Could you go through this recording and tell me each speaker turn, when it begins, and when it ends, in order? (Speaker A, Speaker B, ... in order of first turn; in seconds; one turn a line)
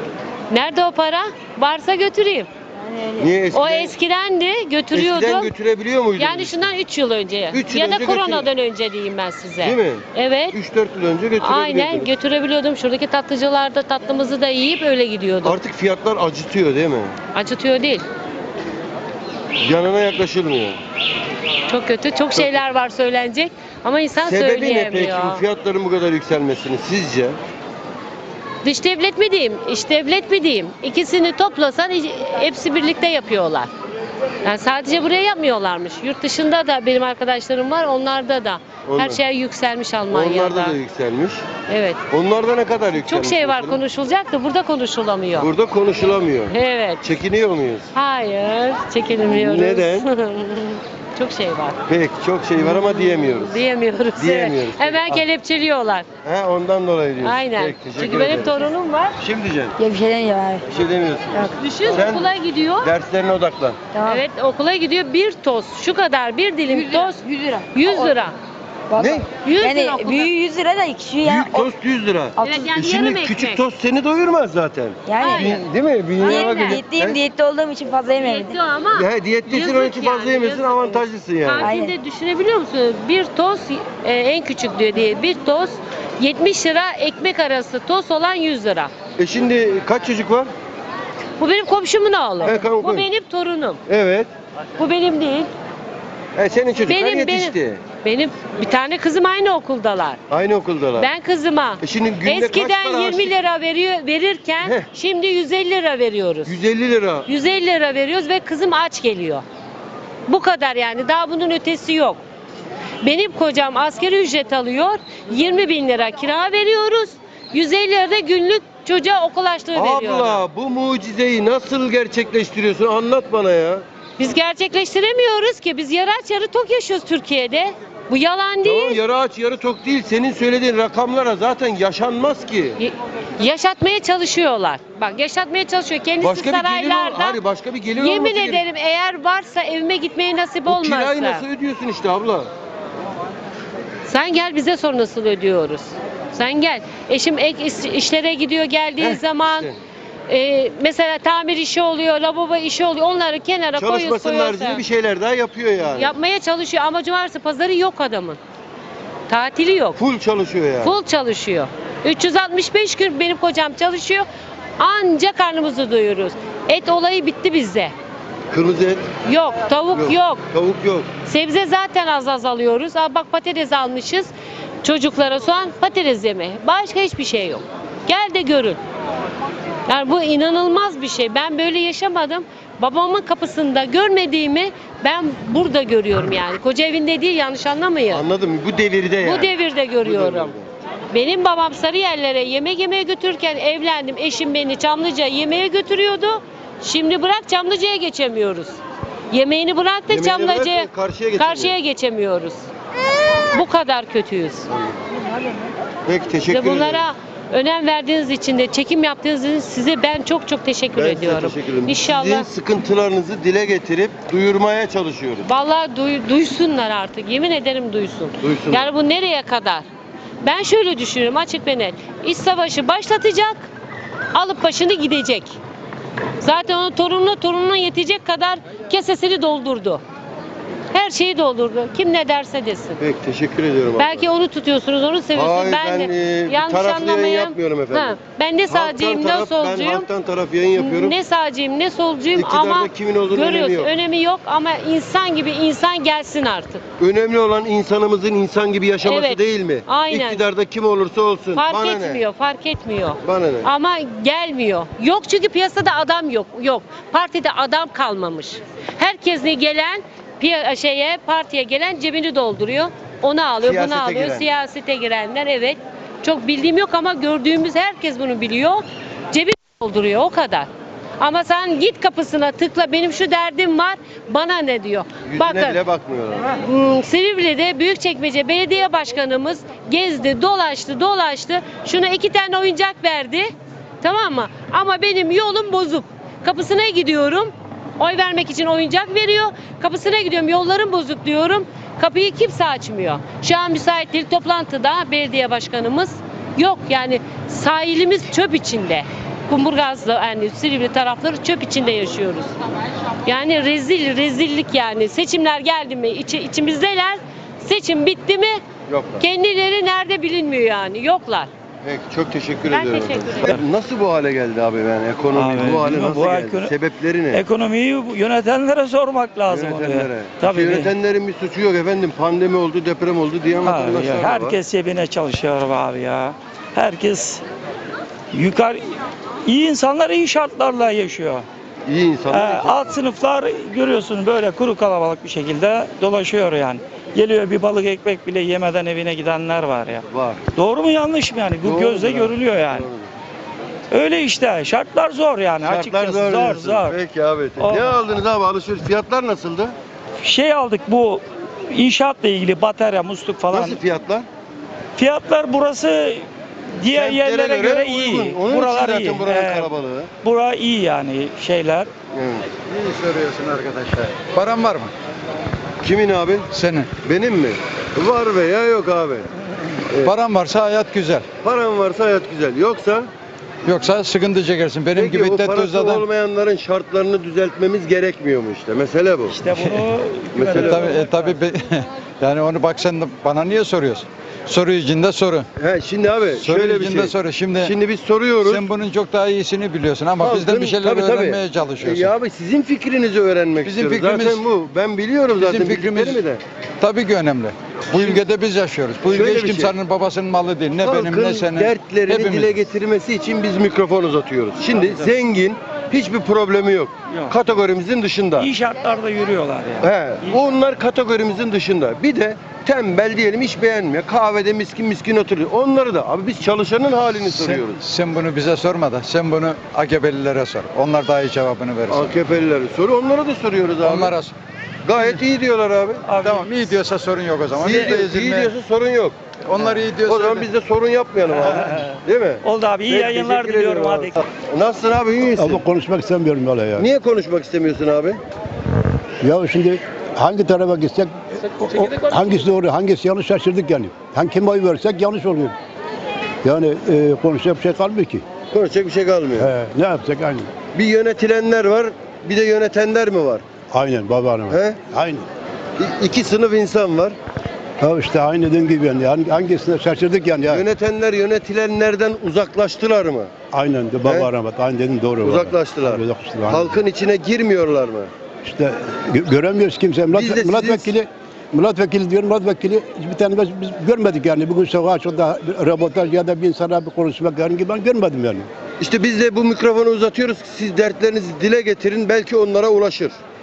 Speaker A: 0.5-2.5
Speaker B: 3.2-3.9
Speaker A: 3.5-5.5
Speaker B: 4.9-6.7
Speaker A: 6.2-10.6
Speaker B: 7.5-8.5
Speaker B: 9.6-12.1
Speaker A: 11.4-15.6
Speaker B: 15.4-17.2
Speaker A: 17.3-18.1
Speaker B: 19.6-20.8
Speaker A: 21.7-25.4
Speaker B: 24.2-27.4
Speaker A: 28.6-33.7
Speaker A: 34.4-40.8
Speaker B: 38.9-39.2
Speaker B: 40.1-41.5
Speaker A: 41.7-42.0
Speaker B: 42.1-43.8
Speaker A: 43.0-45.5
Speaker B: 45.4-47.9
Speaker A: 46.5-47.1
Speaker A: 47.9-51.8
Speaker B: 49.3-50.1
Speaker B: 51.9-53.6
Speaker A: 52.6-56.0
Speaker B: 54.2-55.3
Speaker B: 56.2-59.8
Speaker A: 57.2-59.1
Speaker C: 59.8-60.6
Speaker B: 60.7-62.3
Speaker A: 61.6-62.9
Speaker B: 62.8-63.8
Speaker C: 63.9-64.2
Speaker A: 64.0-68.3
Speaker C: 66.7-68.0
Speaker B: 69.0-69.3
Speaker C: 69.0-71.7
Speaker A: 69.4-70.4
Speaker B: 71.2-77.2
Speaker C: 72.4-72.8
Speaker A: 72.4-73.6
Speaker C: 75.1-75.6
Speaker A: 75.2-75.7
Speaker C: 76.2-78.5
Speaker A: 76.2-76.8
Speaker A: 78.1-88.9
Speaker B: 79.0-81.7
Speaker C: 81.6-82.0
Speaker B: 89.2-90.5
Speaker A: 91.4-93.8
Speaker B: 92.4-93.1
Speaker B: 93.9-94.3
Speaker A: 94.8-95.5
Speaker B: 96.4-97.8
Speaker A: 96.9-100.2
Speaker B: 100.3-101.1
Speaker A: 101.0-106.6
Speaker B: 101.8-103.3
Speaker B: 106.5-107.3
Speaker A: 107.3-109.4
Speaker A: 110.3-112.2
Speaker A: 113.0-120.5
Speaker B: 119.8-123.8
Speaker A: 124.2-129.0
Speaker B: 128.6-132.8
Speaker A: 132.8-137.4
Speaker B: 136.2-138.6
Speaker A: 138.0-141.4
Speaker B: 140.7-142.5
Speaker A: 144.1-149.7
Speaker B: 149.0-149.8
Speaker A: 150.3-154.8
Speaker B: 153.8-156.1
Speaker A: 156.0-158.4
Speaker A: 159.3-160.0
Speaker B: 160.0-160.9
Speaker A: 160.8-164.3
Speaker A: 164.8-167.9
Speaker B: 168.5-169.1
Speaker A: 169.3-170.4
Speaker B: 169.9-171.1
Speaker A: 171.3-174.3
Speaker A: 174.8-178.8
Speaker A: 179.9-188.3
Speaker B: 188.1-190.7
Speaker A: 189.2-190.5
Speaker A: 191.1-198.8
Speaker A: 199.3-202.6
Speaker B: 200.1-201.8
Speaker A: 203.5-204.7
Speaker B: 204.7-205.0
Speaker B: 206.1-207.0
Speaker A: 206.5-212.5
Speaker B: 211.0-215.5
Speaker A: 215.5-219.8
Speaker B: 218.4-218.9
Speaker A: 220.4-223.6
Speaker A: 224.3-225.6
Speaker A: 226.4-230.0
Speaker A: 230.9-233.0
Speaker B: 233.0-234.3
Speaker A: 234.0-240.1
Speaker B: 235.3-238.2
Speaker B: 238.7-241.2
Speaker A: 240.8-246.8
Speaker B: 242.3-243.9
Speaker B: 247.0-252.2
Speaker A: 249.0-250.4
Speaker A: 251.6-270.7
Speaker B: 253.2-253.7
Speaker B: 263.6-264.5
Speaker A: 271.2-275.8
Speaker B: 275.3-276.5
Speaker A: 276.5-283.5
Speaker A: 284.0-302.6
Speaker A: 303.2-308.6
Speaker B: 308.9-309.2
Speaker A: 309.2-311.5
Speaker B: 311.8-317.4
Speaker A: 312.7-313.6
Speaker D: 315.3-316.7
Speaker D: 317.3-320.9
Speaker B: 319.5-324.6
Speaker D: 323.6-327.4
Speaker D: 328.3-328.8
Speaker D: 329.5-331.5
Speaker B: 331.9-332.9
Speaker D: 332.3-340.1
Speaker B: 340.1-340.4
Speaker D: 340.6-342.9
Speaker B: 341.6-343.1
Speaker D: 343.9-347.0
Speaker B: 345.6-349.8
Speaker D: 347.6-348.0
Speaker D: 350.2-353.8
Speaker B: 353.5-354.3
Speaker D: 354.9-356.3
Speaker D: 356.8-359.7
Speaker B: 356.9-360.1
Speaker D: 360.2-361.9
Speaker B: 362.1-362.5
Speaker E: 362.8-364.9
Speaker B: 365.8-366.5
Speaker E: 366.5-366.9
Speaker B: 367.0-369.3
Speaker E: 370.0-371.3
Speaker B: 371.4-373.1
Speaker E: 373.6-376.1
Speaker B: 374.9-379.4
Speaker D: 379.3-381.4
Speaker B: 380.4-381.0
Speaker E: 380.5-385.5
Speaker B: 385.6-388.7
Speaker E: 386.3-387.8
Speaker E: 388.4-392.1
Speaker B: 390.2-396.4
Speaker E: 393.6-394.4
Speaker E: 395.4-396.2
Speaker E: 396.8-402.5
Speaker B: 397.9-398.2
Speaker B: 399.1-399.8
Speaker B: 400.8-408.5
Speaker D: 408.4-410.4
Speaker B: 409.8-417.8
Speaker E: 417.3-422.1
Speaker B: 421.9-424.1
Speaker E: 423.8-424.3
Speaker B: 424.9-426.1
Speaker D: 426.1-426.7
Speaker E: 426.2-428.5
Speaker B: 427.6-429.2
Speaker D: 427.7-427.9
Speaker E: 429.4-430.5
Speaker B: 430.0-435.6
Speaker D: 431.3-434.2
Speaker F: 435.4-436.9
Speaker B: 436.8-438.2
Speaker F: 439.2-445.6
Speaker F: 446.4-448.2
Speaker B: 448.5-449.5
Speaker F: 449.4-450.5
Speaker B: 450.7-453.4
Speaker F: 453.7-455.3
Speaker B: 454.5-454.8
Speaker B: 455.8-457.2
Speaker F: 457.8-460.7
Speaker B: 460.5-463.3
Speaker F: 463.5-466.8
Speaker B: 465.2-468.1
Speaker F: 468.4-478.5
Speaker B: 470.1-470.9
Speaker B: 478.8-483.2